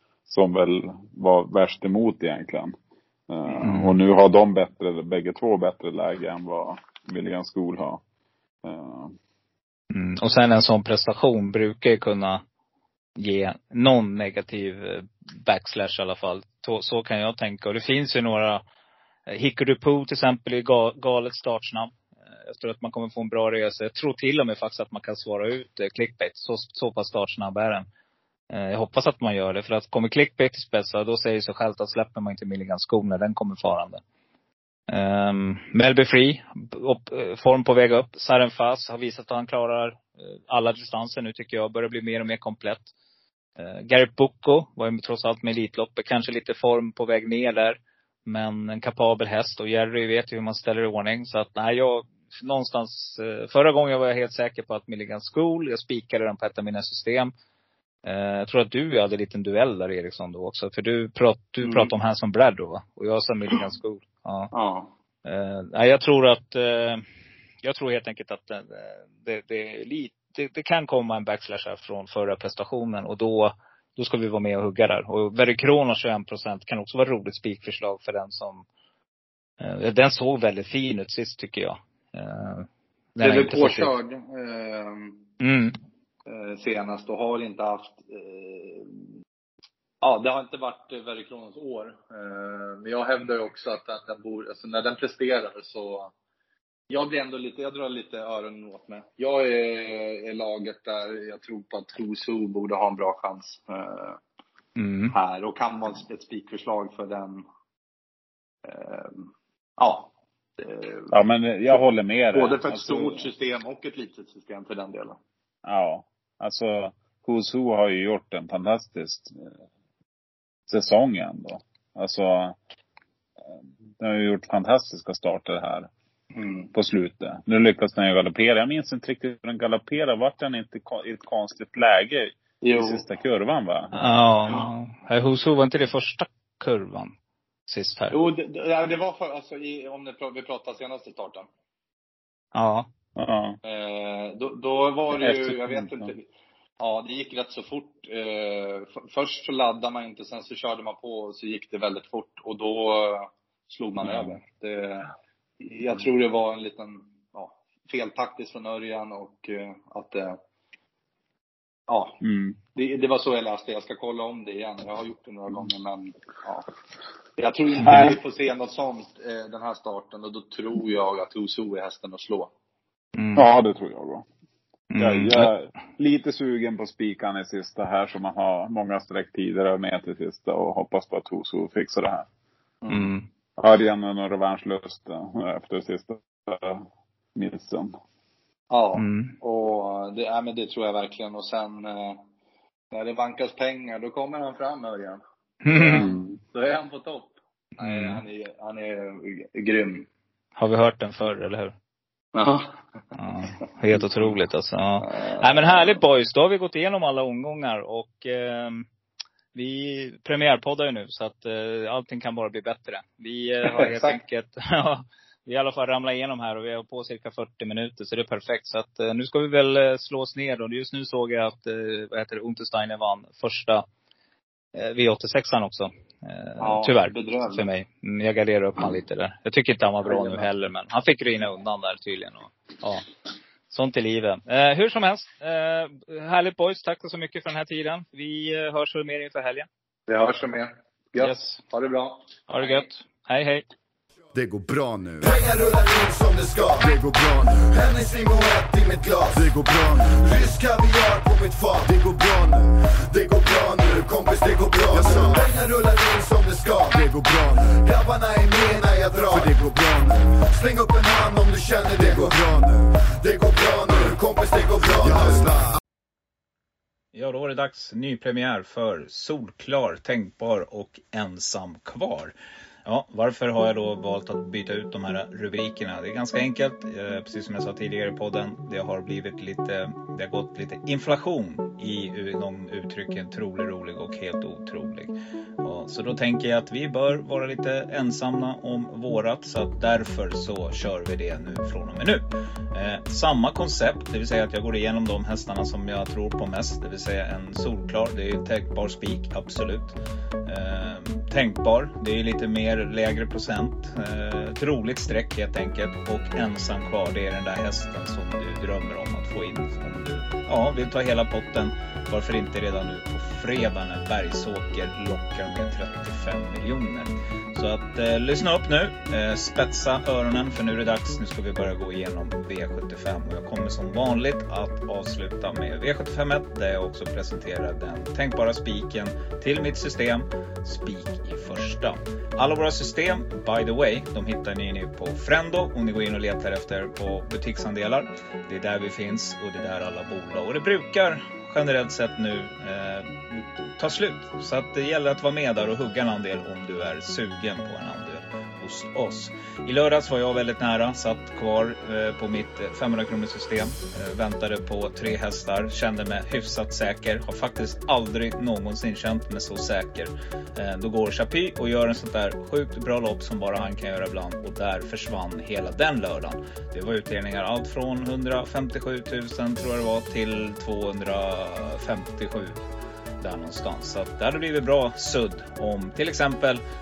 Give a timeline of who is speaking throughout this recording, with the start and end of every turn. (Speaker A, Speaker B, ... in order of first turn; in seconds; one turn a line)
Speaker A: 0.3-2.8
Speaker A: 3.3-8.0
Speaker B: 3.6-4.0
Speaker A: 8.6-9.2
Speaker B: 9.9-12.4
Speaker B: 13.2-18.6
Speaker B: 19.3-21.9
Speaker B: 22.4-27.9
Speaker B: 28.5-34.0
Speaker B: 34.9-42.9
Speaker B: 43.6-57.3
Speaker B: 58.0-64.5
Speaker C: 61.6-61.9
Speaker C: 64.5-64.9
Speaker B: 65.2-67.0
Speaker B: 67.6-78.7
Speaker B: 79.6-83.9
Speaker C: 83.2-85.3
Speaker B: 85.4-85.8
Speaker C: 86.3-89.0
Speaker C: 90.0-96.1
Speaker C: 96.9-104.2
Speaker B: 104.8-105.2
Speaker C: 105.1-107.5
Speaker C: 108.7-111.1
Speaker A: 111.1-113.3
Speaker C: 112.3-115.2
Speaker A: 115.6-119.5
Speaker A: 120.7-122.6
Speaker A: 124.0-125.9
Speaker C: 126.3-126.7
Speaker A: 126.7-134.1
Speaker C: 132.6-133.0
Speaker B: 133.9-137.1
Speaker B: 137.7-138.2
Speaker C: 138.1-141.5
Speaker B: 142.6-142.9
Speaker A: 143.2-143.6
Speaker C: 143.6-146.3
Speaker A: 145.2-146.1
Speaker C: 146.8-160.4
Speaker A: 154.0-154.4
Speaker C: 161.9-162.2
Speaker A: 162.2-162.6
Speaker C: 162.8-166.7
Speaker C: 167.4-172.5
Speaker A: 167.8-168.2
Speaker B: 173.2-173.5
Speaker A: 173.3-174.3
Speaker B: 174.9-175.5
Speaker A: 175.0-182.3
Speaker C: 182.8-183.1
Speaker B: 182.9-183.3
Speaker A: 183.6-188.0
Speaker C: 188.7-192.2
Speaker B: 189.0-189.3
Speaker C: 192.9-195.2
Speaker B: 195.6-196.1
Speaker A: 195.7-196.3
Speaker C: 195.8-200.1
Speaker B: 197.8-198.2
Speaker B: 200.6-201.7
Speaker C: 202.3-202.8
Speaker B: 203.2-208.9
Speaker C: 205.0-206.0
Speaker B: 209.6-223.8
Speaker C: 213.7-214.2
Speaker B: 224.8-233.1
Speaker C: 226.6-227.6
Speaker C: 230.1-230.5
Speaker B: 233.7-239.7
Speaker C: 240.1-242.9
Speaker B: 241.2-241.6
Speaker B: 242.5-243.7
Speaker D: 244.3-245.3
Speaker E: 245.2-246.9
Speaker D: 246.8-247.5
Speaker E: 247.5-249.4
Speaker D: 249.3-250.2
Speaker E: 250.2-251.9
Speaker D: 251.8-252.7
Speaker E: 253.1-257.0
Speaker D: 254.9-255.5
Speaker D: 256.9-257.6
Speaker E: 257.8-259.5
Speaker D: 259.3-260.4
Speaker E: 260.5-262.3
Speaker D: 262.1-262.9
Speaker E: 263.2-265.6
Speaker F: 267.1-272.3
Speaker F: 272.9-372.6
Speaker F: 373.2-376.6